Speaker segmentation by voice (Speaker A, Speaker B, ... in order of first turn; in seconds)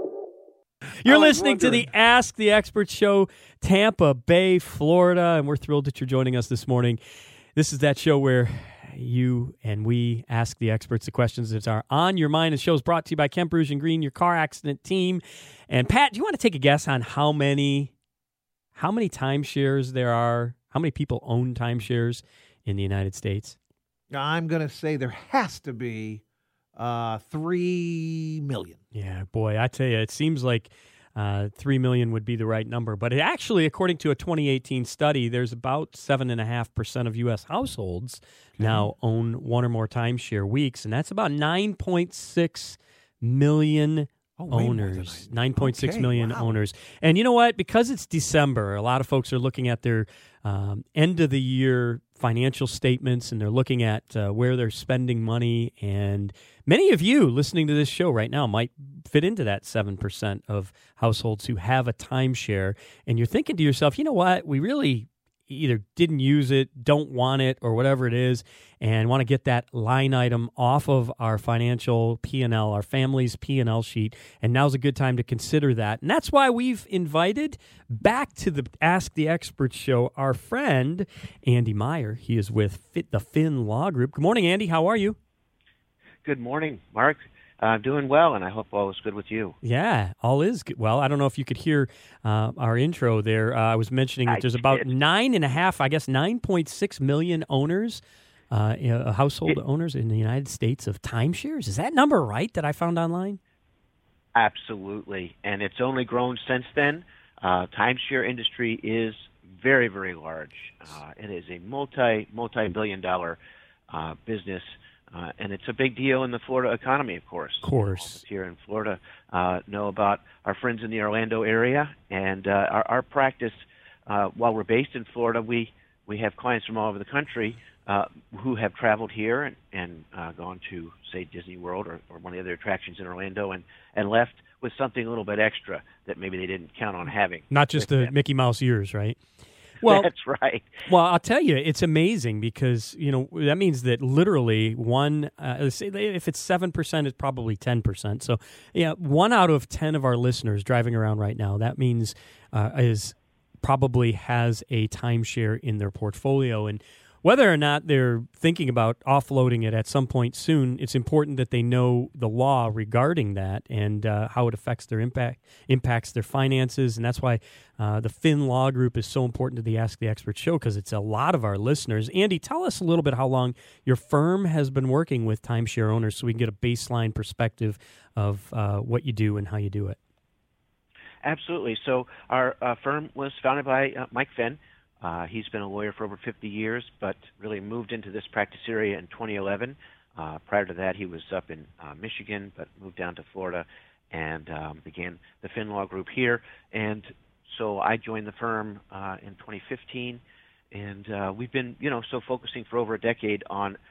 Speaker A: 1.0-7.0, 7.5-17.9, 18.7-23.6, 28.9-85.2, 89.6-103.4, 117.6-118.2, 137.5-139.2, 139.8-140.1, 140.8-180.0
Speaker B: 1.1-1.8, 24.1-26.2, 26.7-28.8, 38.6-38.9, 44.4-46.6
Speaker C: 86.2-89.5, 94.3-94.9, 104.3-113.4, 113.9-138.1, 139.8-140.8, 181.2-200.2, 200.7-203.8